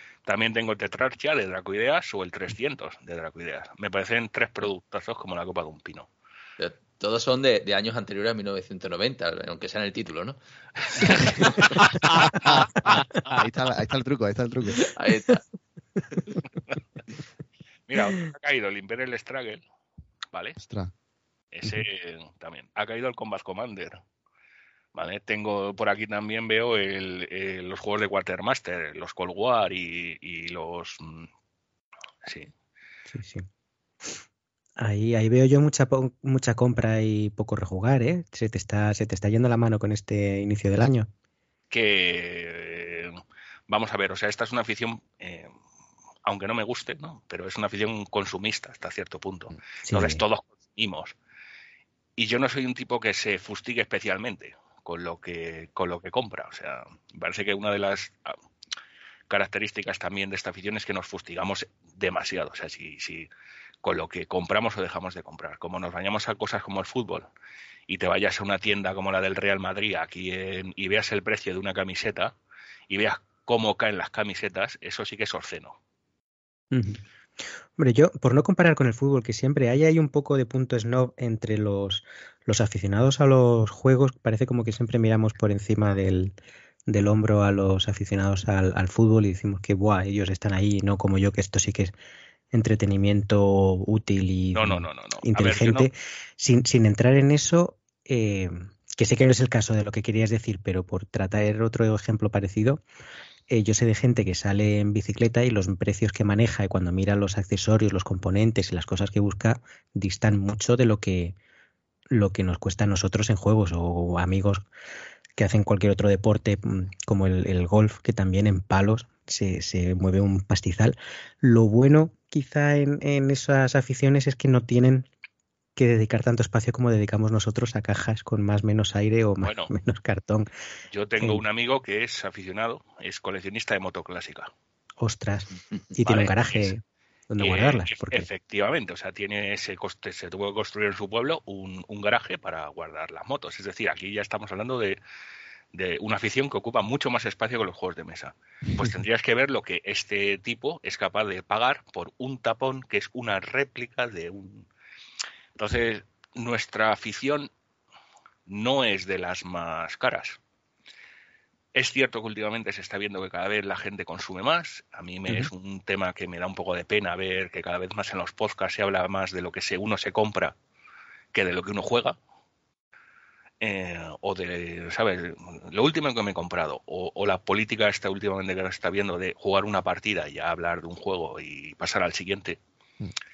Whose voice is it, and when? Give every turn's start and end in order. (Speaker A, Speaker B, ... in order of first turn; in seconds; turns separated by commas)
Speaker A: 0.2-6.1, Speaker B: 6.6-10.4, Speaker B: 10.9-11.9, Speaker C: 12.4-14.9, Speaker B: 14.8-15.4, Speaker A: 17.9-19.6, Speaker A: 20.3-20.6, Speaker C: 20.6-20.9, Speaker A: 21.5-24.0, Speaker A: 24.9-31.3, Speaker A: 32.2-32.5, Speaker D: 33.1-33.5, Speaker D: 34.8-41.1, Speaker A: 41.7-45.5, Speaker A: 46.2-51.1, Speaker D: 49.9-50.2, Speaker A: 52.2-58.4, Speaker A: 59.3-63.3, Speaker A: 63.8-67.3, Speaker A: 67.9-72.3, Speaker A: 72.9-75.8, Speaker D: 76.7-77.0, Speaker D: 77.8-86.3, Speaker D: 86.9-91.9, Speaker D: 92.5-102.8, Speaker A: 94.5-95.9, Speaker D: 103.5-111.3, Speaker D: 112.1-114.6, Speaker D: 115.4-125.1, Speaker D: 125.8-130.5, Speaker A: 129.4-129.7, Speaker A: 130.9-134.5, Speaker D: 135.0-138.3, Speaker A: 136.0-136.7, Speaker A: 137.4-145.0, Speaker A: 145.7-154.7, Speaker A: 155.6-157.5, Speaker A: 158.5-160.4, Speaker A: 161.7-170.6, Speaker A: 171.3-172.2, Speaker A: 173.6-182.6